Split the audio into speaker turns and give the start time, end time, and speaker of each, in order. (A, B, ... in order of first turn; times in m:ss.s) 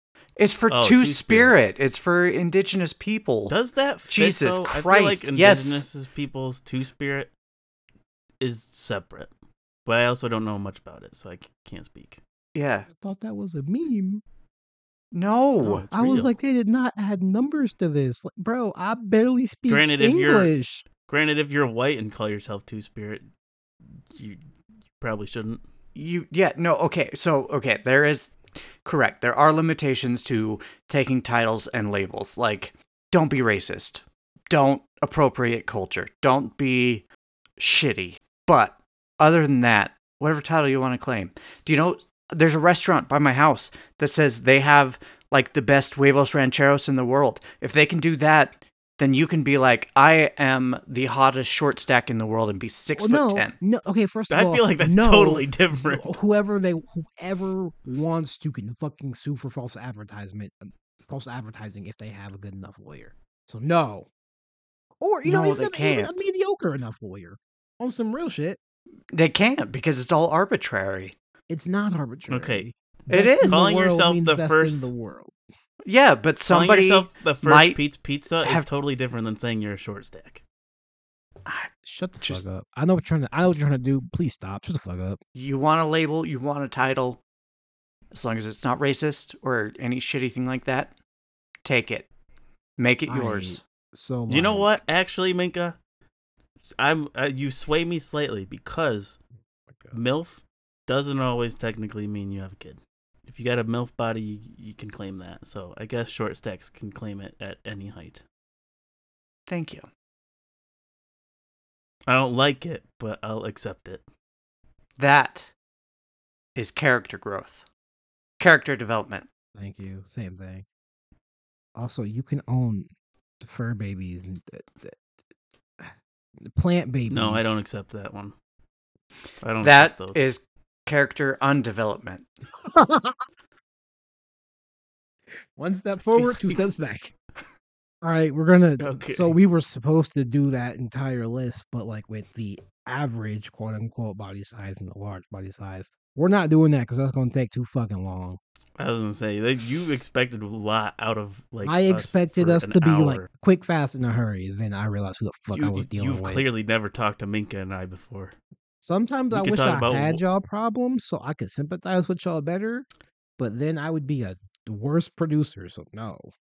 0:00.4-0:03.5 A
0:00.7-0:01.5 B
0:03.5-0:07.3 B
0:04.1-0:05.8 A
0:08.4-0:09.3 B
0:09.8-0:12.2 B
0:12.5-0:12.9 A
0:12.9-0:14.2 C
0:15.1-0:15.8 A
0:15.6-0:16.3 B
0:15.9-0:20.8 C
0:19.7-0:20.5 B
0:21.0-0:23.2 B
0:24.1-0:24.4 B
0:25.0-0:25.6 B
0:25.9-0:37.0 A
0:37.6-0:53.5 A
0:53.0-1:04.1 C
0:54.3-0:56.2 B
1:05.0-1:08.6 C
1:05.2-1:06.2 A
1:09.1-1:11.2 A
1:11.5-1:15.3 C
1:12.3-1:12.6 B
1:13.1-1:13.8 A
1:13.4-1:14.9 B
1:15.8-1:17.8 A
1:16.5-1:20.4 B
1:18.4-1:18.7 A
1:21.4-1:22.4 A
1:21.8-1:25.2 C
1:25.3-1:27.2 A
1:28.1-1:30.9 A
1:31.6-1:32.1 A
1:32.8-1:33.6 A
1:33.1-1:34.8 C
1:34.3-1:35.8 B
1:36.8-1:39.2 B
1:39.9-1:48.2 B
1:49.5-1:49.9 A
1:52.1-1:54.0 B
1:55.0-1:55.5 A
1:56.6-1:57.6 A
1:58.4-1:59.3 A
1:59.6-2:00.6 C
2:01.8-2:02.9 C
2:03.4-2:05.0 C
2:06.4-2:07.6 C
2:07.1-2:08.3 B
2:09.4-2:10.2 B
2:09.6-2:12.3 A
2:12.6-2:13.2 C
2:15.6-2:17.1 C
2:16.1-2:16.7 B
2:18.0-2:28.4 C
2:18.8-2:19.3 B
2:28.8-2:33.3 B
2:31.6-2:36.4 C
2:35.5-2:38.4 B
2:38.8-2:42.9 C
2:39.3-2:40.2 B
2:43.4-2:46.3 C